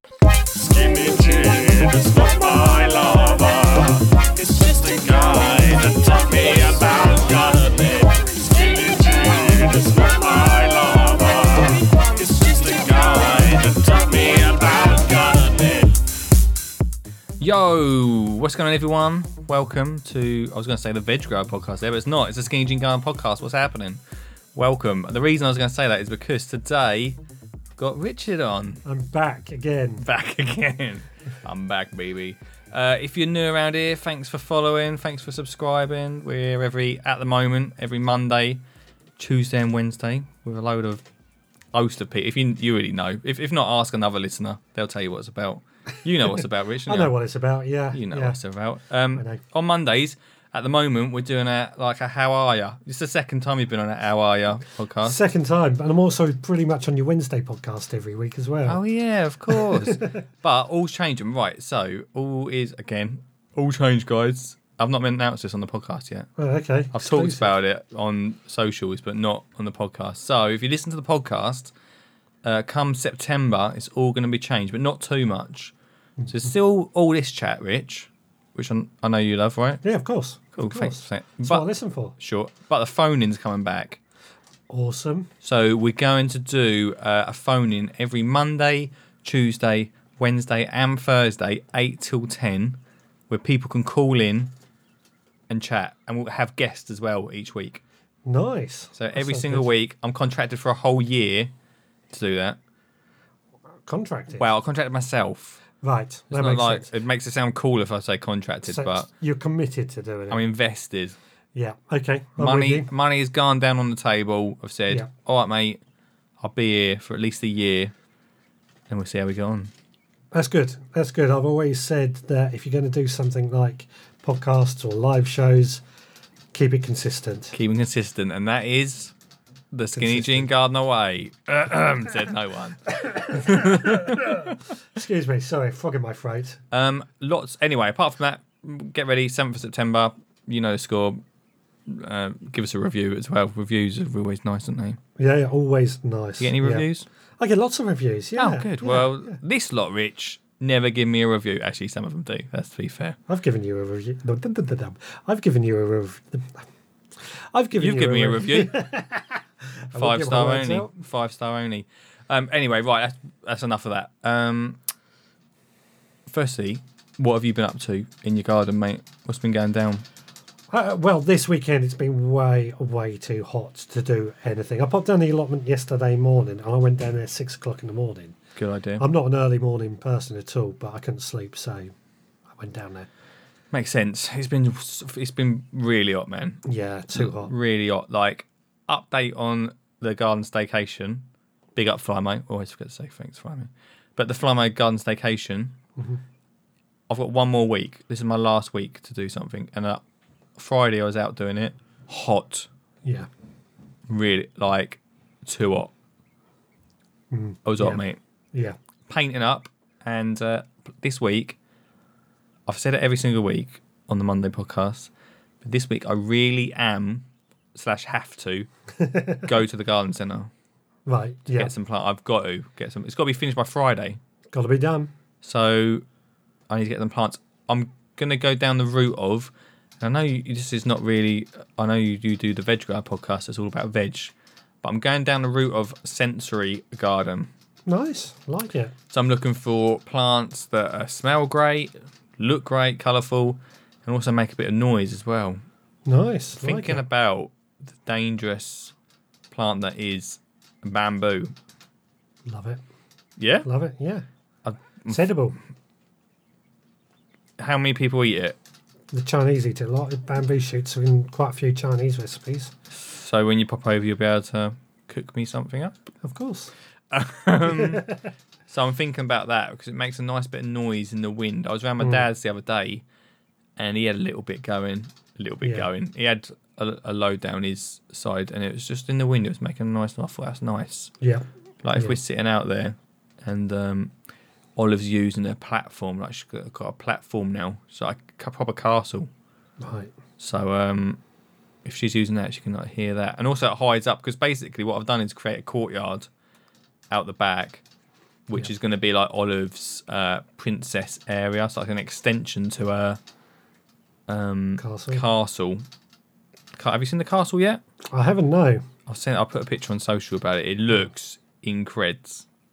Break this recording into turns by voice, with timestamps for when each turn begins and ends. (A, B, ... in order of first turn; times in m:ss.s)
0:00.7-0:15.9 A
0:02.7-0:03.6 B
0:04.5-0:08.0 B
0:08.6-0:11.6 B
0:12.4-0:15.6 B
0:17.4-0:24.0 B
0:24.5-0:27.2 B
0:27.8-0:28.8 B
0:28.8-0:30.0 C
0:30.0-0:38.6 B
0:39.2-0:41.0 B
0:41.7-0:47.1 B
0:46.9-0:48.4 C
0:47.9-0:55.2 B
0:49.2-0:49.4 C
0:55.0-0:58.8 C
0:58.6-1:06.3 B
0:59.5-1:00.2 C
1:06.4-1:07.5 C
1:06.9-1:11.7 B
1:12.4-1:15.7 B
1:16.3-1:19.8 B
1:19.8-1:22.1 C
1:20.5-1:21.6 B
1:22.2-1:24.0 B
1:24.7-1:25.3 C
1:25.4-1:32.8 B
1:33.3-1:34.5 B
1:35.5-1:37.8 B
1:38.2-1:39.7 C
1:39.0-1:41.5 B
1:42.1-1:42.6 B
1:43.8-1:44.4 C
1:44.4-1:45.6 B
1:45.8-1:46.9 C
1:46.3-1:49.1 B
1:48.6-1:50.4 C
1:50.3-1:51.2 B
1:51.5-1:52.9 C
1:52.4-1:55.8 B
1:56.4-1:57.9 B
1:58.9-1:59.7 B
2:00.3-2:05.8 C
2:06.5-2:07.5 C
2:07.5-2:09.1 B
2:09.7-2:14.6 B
2:09.9-2:10.5 C
2:12.9-2:16.6 C
2:16.7-2:21.2 B
2:21.9-2:25.0 B
2:25.2-2:26.8 C
2:26.4-2:27.1 B
2:27.4-2:29.3 C
2:28.4-2:33.2 B
2:33.3-2:36.6 C
2:37.2-2:40.9 C
2:37.7-2:38.8 B
2:39.9-2:44.8 B
2:46.3-2:50.0 B
2:50.7-2:58.4 C
2:58.6-2:59.0 B
2:59.0-3:01.9 C
3:02.5-3:03.1 C
3:03.7-3:15.8 B
3:06.6-3:07.5 C
3:16.0-3:16.2 C
3:17.1-3:20.0 B
3:20.6-3:22.7 B
3:23.0-3:23.3 C
3:24.1-3:25.9 B
3:27.3-3:28.0 C
3:27.6-3:28.2 B
3:29.1-3:31.6 B
3:32.7-3:35.1 B
3:35.6-3:38.7 B
3:39.0-3:39.5 C
3:39.4-3:40.5 B
3:41.1-3:41.7 C
3:41.5-3:44.2 B
3:44.5-3:45.1 C
3:45.4-3:46.0 B
3:46.7-3:57.5 B
3:57.8-3:58.9 C
3:59.1-4:05.6 B
4:06.0-4:07.0 C
4:06.6-4:08.9 B
4:09.5-4:11.5 B
4:12.4-4:12.8 C
4:13.4-4:13.6 B
4:13.6-4:14.2 C
4:14.6-4:15.3 B
4:15.1-4:15.6 C
4:17.6-4:18.6 B
4:19.1-4:22.7 C
4:23.0-4:26.0 B
4:26.2-4:26.7 C
4:27.1-4:28.1 B
4:27.6-4:28.2 C
4:28.7-4:33.0 B
4:33.8-4:41.1 B
4:35.6-4:35.9 C
4:41.2-4:42.2 C
4:41.8-4:44.1 B
4:44.8-4:49.3 B
4:49.8-4:50.1 C
4:50.4-4:51.2 B
4:51.8-4:56.3 B
4:57.1-4:57.8 B
4:58.5-5:03.2 B
5:04.3-5:05.8 B
5:04.8-5:05.2 C
5:06.8-5:07.8 B
5:08.1-5:08.9 C
5:09.1-5:12.4 B